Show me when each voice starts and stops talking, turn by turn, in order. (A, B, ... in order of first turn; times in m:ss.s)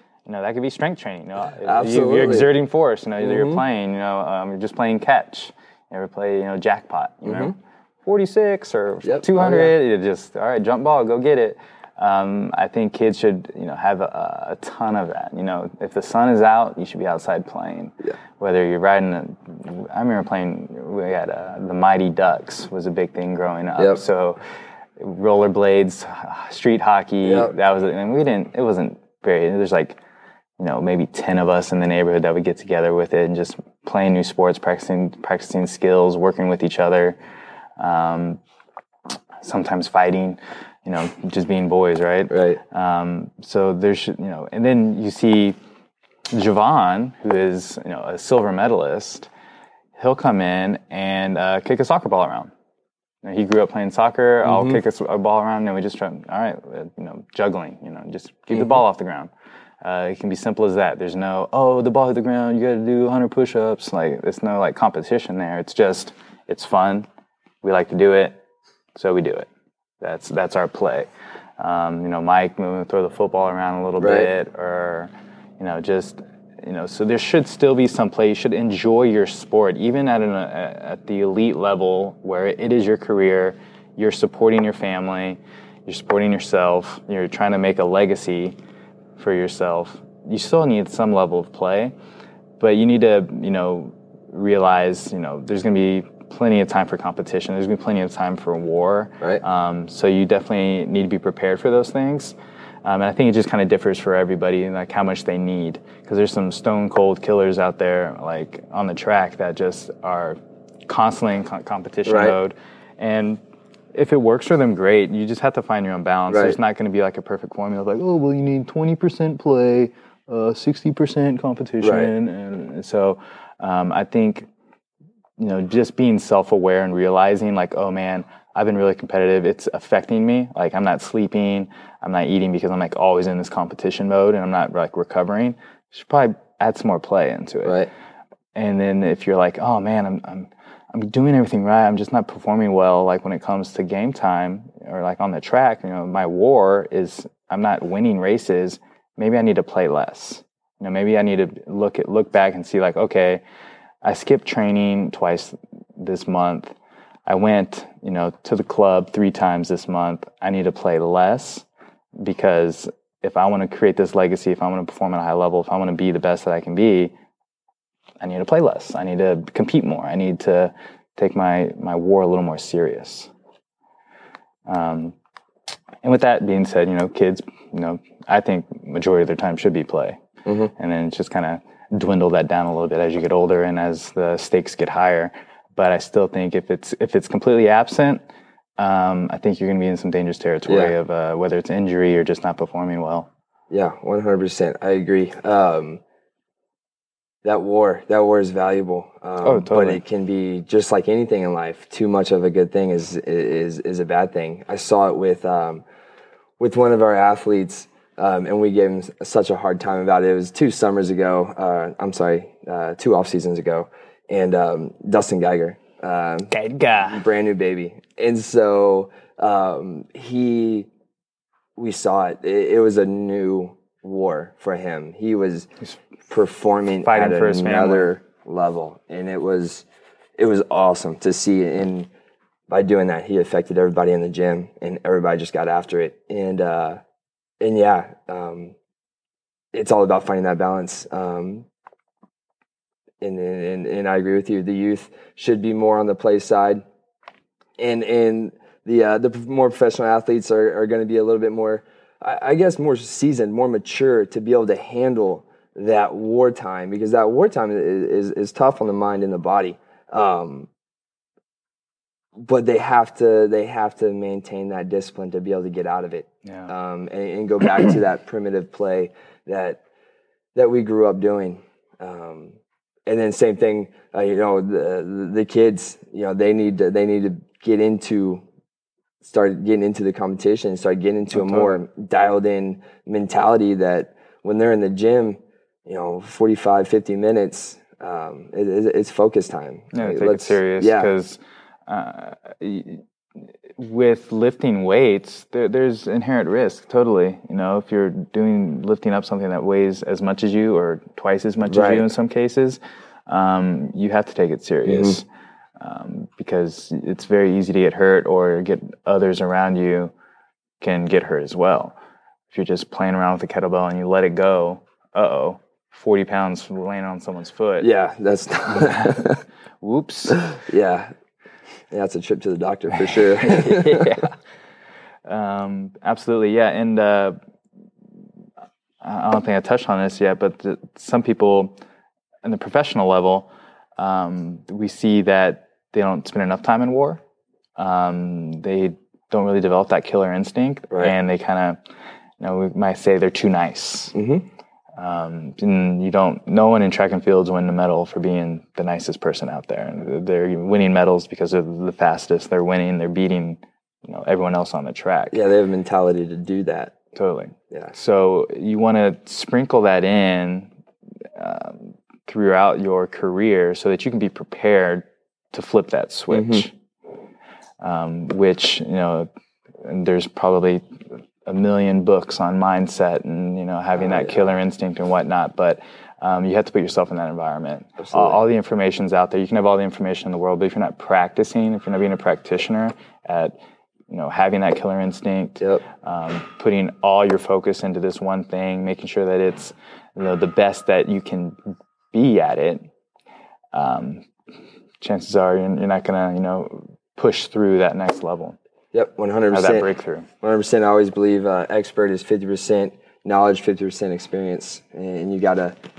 0:00.2-0:24.4 A
0:01.6-0:02.5 B
0:03.2-0:03.6 B
0:07.2-0:07.5 B
0:09.0-0:09.7 B
0:25.0-0:30.0 A
0:27.2-0:27.5 B
0:30.6-0:37.2 A
0:37.8-0:38.4 A
0:39.4-0:45.6 A
0:42.3-0:42.6 B
0:46.3-0:49.3 A
0:50.0-0:52.5 A
0:53.2-0:59.3 A
0:54.4-0:54.8 B
0:59.8-1:07.0 A
1:07.6-1:08.4 A
1:08.9-1:09.5 A
1:10.0-1:11.1 A
1:11.6-1:28.6 A
1:14.0-1:14.3 B
1:29.2-1:31.9 A
1:32.6-1:53.4 A
1:52.0-1:52.4 B
1:53.9-2:04.5 A
1:56.3-1:56.6 B
2:01.8-2:02.1 B
2:05.4-2:17.8 A
2:17.6-2:17.9 B
2:18.5-2:33.4 A
2:34.0-2:36.8 A
2:37.3-2:41.6 A
2:42.2-2:47.1 A
2:48.2-2:53.3 A
2:54.7-2:55.1 A
2:56.0-3:00.2 A
3:00.4-3:00.7 B
3:00.8-3:08.2 A
3:08.8-3:13.3 A
3:10.7-3:10.9 B
3:13.7-3:16.0 B
3:17.4-3:25.8 B
3:19.4-3:20.0 A
3:26.6-3:36.5 B
3:36.5-3:37.2 A
3:37.0-3:40.9 B
3:41.8-3:45.7 B
3:46.3-3:49.8 B
3:47.0-3:48.1 A
3:50.4-3:52.1 B
3:52.7-3:57.0 B
3:57.6-3:58.7 B
3:59.7-4:01.6 B
4:03.2-4:06.8 B
4:07.8-4:20.7 B
4:22.4-4:29.8 B
4:26.4-4:26.7 A
4:30.5-4:32.5 B
4:33.1-4:38.4 B
4:39.2-4:51.1 B
4:41.3-4:41.7 A
4:49.9-4:53.0 A
4:53.8-5:05.2 A
5:01.7-5:02.0 B
5:04.8-5:05.2 B
5:05.8-5:10.1 A
5:10.8-5:12.0 A
5:12.5-5:17.9 A
5:17.8-5:19.4 B
5:18.8-5:19.2 A
5:19.8-5:20.5 A
5:20.5-5:21.1 B
5:21.9-5:24.2 B
5:23.3-5:24.3 A
5:25.2-5:27.4 A
5:29.0-5:31.8 A
5:32.4-5:37.2 A
5:37.8-5:41.8 A
5:42.4-5:44.1 A
5:44.1-5:44.5 B
5:45.0-5:55.4 A
5:55.3-5:56.9 B
5:57.1-6:00.7 A
6:01.4-6:06.7 A
6:06.3-6:06.7 B
6:07.8-6:09.3 A
6:09.8-6:10.8 A
6:11.4-6:23.6 A
6:14.0-6:14.4 B
6:18.0-6:18.4 B
6:24.1-6:31.6 A
6:32.1-6:32.9 A
6:33.7-6:34.2 A
6:35.0-6:38.6 A
6:38.9-6:39.9 B
6:39.5-6:40.3 A
6:40.4-6:45.8 B